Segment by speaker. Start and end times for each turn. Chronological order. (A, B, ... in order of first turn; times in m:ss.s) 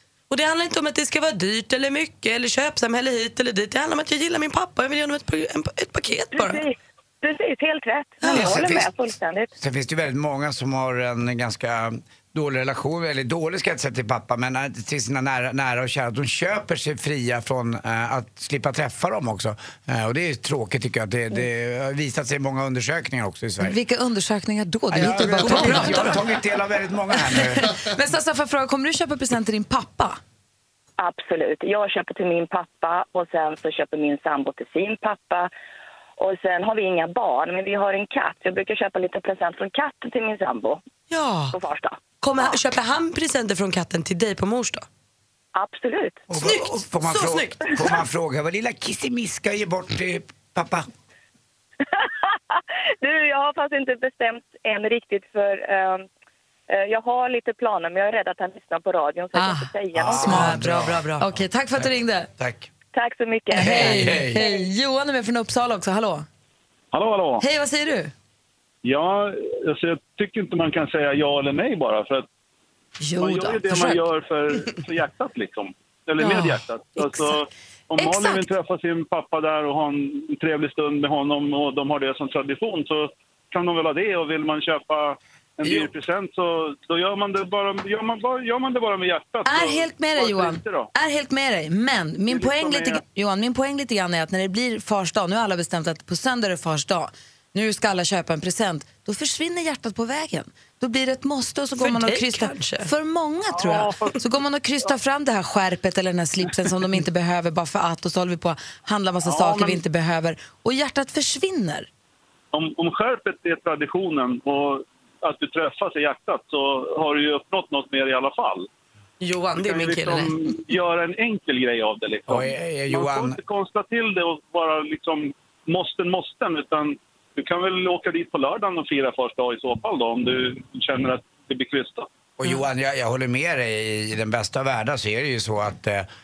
0:00.3-0:06.6 A
0:06.3-0:09.5 B
0:08.2-0:08.6 A
0:08.3-0:08.9 C
0:09.6-0:23.8 C
0:23.6-0:26.2 D
0:24.9-0:27.7 C
0:25.5-0:26.0 A
0:27.2-0:30.2 D
0:31.0-0:35.5 B
0:36.2-0:40.8 B
0:41.1-0:41.6 A
0:41.5-0:42.6 B
0:42.2-0:44.8 A
0:45.6-0:46.2 B
0:46.3-0:50.9 C
0:46.4-0:48.0 A
0:51.8-0:56.1 B
0:56.7-1:00.4 B
0:59.3-0:59.7 D
1:00.0-1:02.7 C
1:00.2-1:02.3 D
1:00.3-1:01.3 A
1:02.9-1:04.4 B
1:03.5-1:06.3 D
1:03.6-1:04.4 C
1:06.9-1:07.4 E
1:07.4-1:08.1 D
1:08.8-1:12.3 E
1:13.0-1:14.0 D
1:13.2-1:30.9 E
1:16.2-1:17.3 D
1:18.0-1:18.5 D
1:29.4-1:51.9 D
1:32.3-1:33.0 E
1:41.8-1:42.9 A
1:43.5-1:44.2 E
1:49.2-1:49.8 E
1:52.5-1:58.7 E
1:59.2-2:00.3 A
1:59.6-2:12.1 E
2:02.3-2:03.4 C
2:12.4-2:16.1 C